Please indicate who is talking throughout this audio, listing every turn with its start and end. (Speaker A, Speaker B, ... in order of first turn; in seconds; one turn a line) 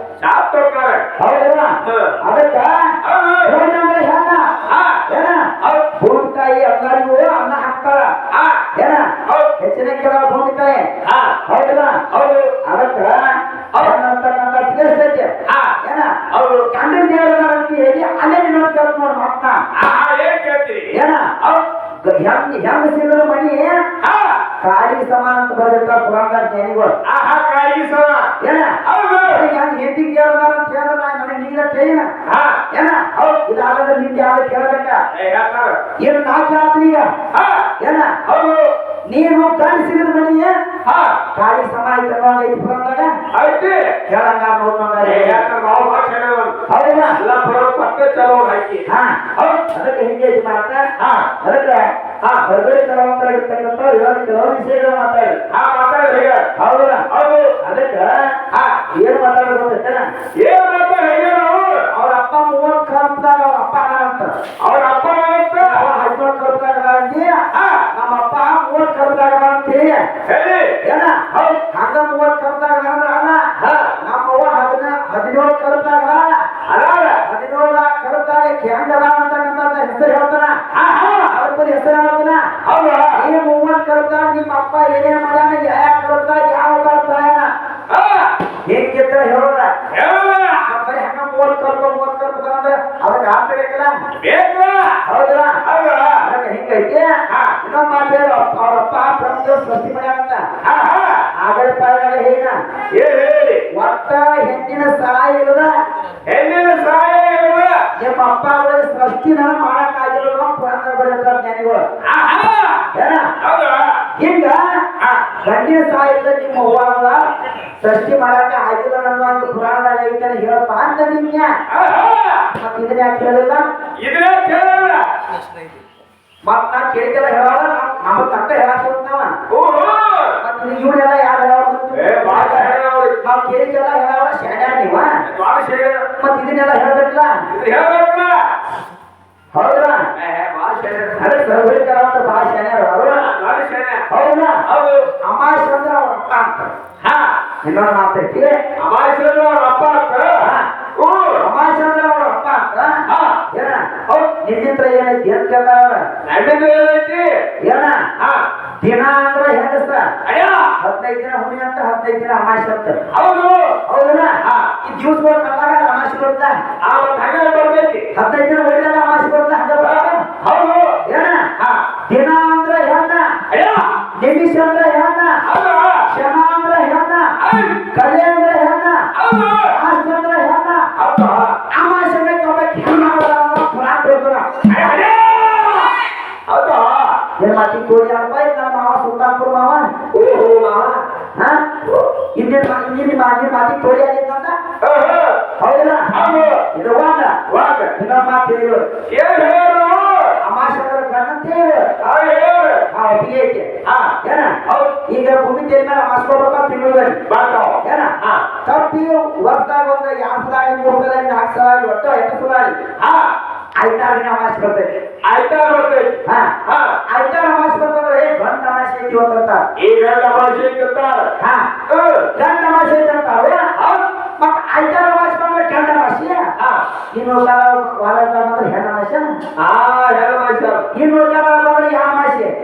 Speaker A: 0.2-1.1
Speaker B: 1.2-2.9
Speaker A: 1.8-2.1
Speaker A: 3.0-3.5
Speaker B: 3.4-4.5
Speaker A: 4.7-5.0
Speaker B: 5.1-8.1
Speaker A: 8.3-8.6
Speaker B: 8.8-10.9
Speaker A: 9.3-9.5
Speaker A: 11.1-11.3
Speaker B: 11.5-12.1
Speaker A: 12.1-12.5
Speaker B: 12.6-15.3
Speaker A: 15.5-15.7
Speaker B: 15.8-16.2
Speaker A: 16.3-16.7
Speaker B: 16.7-19.6
Speaker A: 19.8-20.9
Speaker B: 20.9-23.8
Speaker A: 24.0-24.4
Speaker B: 24.6-26.9
Speaker A: 27.1-28.3
Speaker B: 28.4-32.1
Speaker A: 28.8-29.4
Speaker A: 32.3-32.6
Speaker B: 32.7-35.0
Speaker A: 35.1-35.8
Speaker B: 36.0-37.1
Speaker A: 37.3-37.7
Speaker B: 37.8-38.2
Speaker A: 38.2-38.7
Speaker B: 39.1-40.5
Speaker A: 40.9-41.2
Speaker B: 41.3-43.1
Speaker A: 43.3-43.9
Speaker B: 44.1-45.5
Speaker A: 45.0-46.6
Speaker B: 46.7-47.2
Speaker A: 47.2-48.9
Speaker B: 48.9-50.9
Speaker A: 51.0-51.3
Speaker B: 51.4-51.8
Speaker B: 52.4-55.4
Speaker A: 55.5-56.5
Speaker B: 56.6-58.2
Speaker A: 57.1-57.6
Speaker A: 58.5-58.9
Speaker B: 58.9-60.1
Speaker A: 60.4-61.9
Speaker B: 61.9-64.3
Speaker A: 64.6-65.8
Speaker B: 65.6-67.4
Speaker A: 67.5-67.8
Speaker B: 67.9-70.0
Speaker A: 70.3-70.8
Speaker B: 70.8-73.5
Speaker A: 73.6-73.9
Speaker B: 74.0-76.3
Speaker A: 76.7-77.2
Speaker B: 77.2-80.6
Speaker A: 80.7-81.3
Speaker B: 81.3-82.5
Speaker A: 82.6-83.1
Speaker B: 83.1-87.5
Speaker A: 87.9-88.3
Speaker B: 88.7-89.7
Speaker A: 89.9-90.6
Speaker B: 90.6-93.9
Speaker A: 94.2-95.0
Speaker B: 95.1-95.6
Speaker A: 95.6-96.2
Speaker B: 96.2-100.5
Speaker A: 97.3-97.5
Speaker A: 100.6-101.3
Speaker B: 101.4-102.5
Speaker A: 102.9-103.6
Speaker B: 103.7-105.7
Speaker A: 106.3-107.8
Speaker B: 108.0-111.8
Speaker A: 112.0-112.9
Speaker B: 112.9-113.3
Speaker A: 113.4-114.0
Speaker B: 114.2-114.6
Speaker A: 115.0-115.2
Speaker B: 115.4-117.2
Speaker B: 117.8-121.5
Speaker A: 121.7-122.5
Speaker B: 122.5-123.7
Speaker A: 124.0-125.1
Speaker B: 126.5-129.3
Speaker A: 129.5-130.3
Speaker B: 130.4-135.1
Speaker A: 131.9-133.1
Speaker A: 135.3-136.0
Speaker B: 136.2-137.3
Speaker A: 137.5-138.4
Speaker B: 139.5-140.1
Speaker A: 140.1-141.5
Speaker B: 141.2-143.2
Speaker A: 143.2-144.1
Speaker B: 144.1-144.6
Speaker A: 144.7-145.1
Speaker B: 145.2-146.7
Speaker A: 147.0-147.3
Speaker B: 147.6-148.6
Speaker A: 148.8-151.4
Speaker B: 150.4-150.7
Speaker B: 151.4-156.0
Speaker A: 153.1-153.4
Speaker A: 156.3-157.3
Speaker B: 157.6-158.0
Speaker A: 158.2-158.4
Speaker B: 158.8-160.1
Speaker A: 160.2-160.7
Speaker B: 160.8-163.0
Speaker A: 163.1-163.8
Speaker B: 163.9-166.6
Speaker A: 164.4-164.7
Speaker A: 166.8-168.1
Speaker B: 168.2-170.2
Speaker A: 169.8-171.0
Speaker B: 171.1-171.5
Speaker A: 171.6-171.8
Speaker B: 172.1-173.3
Speaker A: 173.5-173.9
Speaker B: 174.2-175.4
Speaker A: 175.4-176.1
Speaker B: 176.1-177.3
Speaker A: 177.4-177.8
Speaker B: 177.9-179.1
Speaker A: 179.2-179.8
Speaker B: 179.7-180.9
Speaker A: 181.0-181.6
Speaker B: 181.7-184.5
Speaker A: 184.7-187.2
Speaker B: 187.4-189.9
Speaker A: 190.1-191.1
Speaker B: 191.4-191.8
Speaker B: 192.4-194.6
Speaker A: 194.8-195.4
Speaker B: 195.6-196.1
Speaker A: 196.1-196.6
Speaker B: 196.7-198.8
Speaker A: 197.5-197.9
Speaker A: 199.1-200.4
Speaker B: 200.4-201.9
Speaker A: 202.0-202.8
Speaker B: 202.9-203.7
Speaker A: 203.9-204.1
Speaker B: 204.2-207.2
Speaker A: 207.3-208.4
Speaker B: 207.8-208.1
Speaker B: 208.7-212.8
Speaker A: 213.0-213.3
Speaker B: 213.8-214.9
Speaker A: 215.2-217.0
Speaker B: 216.3-216.5
Speaker B: 217.1-219.6
Speaker A: 219.8-221.3
Speaker B: 221.4-221.7
Speaker A: 221.9-222.3
Speaker B: 222.4-223.6
Speaker A: 223.8-224.0
Speaker B: 224.4-226.4
Speaker B: 227.1-229.3
Speaker A: 229.6-230.9
Speaker B: 230.9-232.5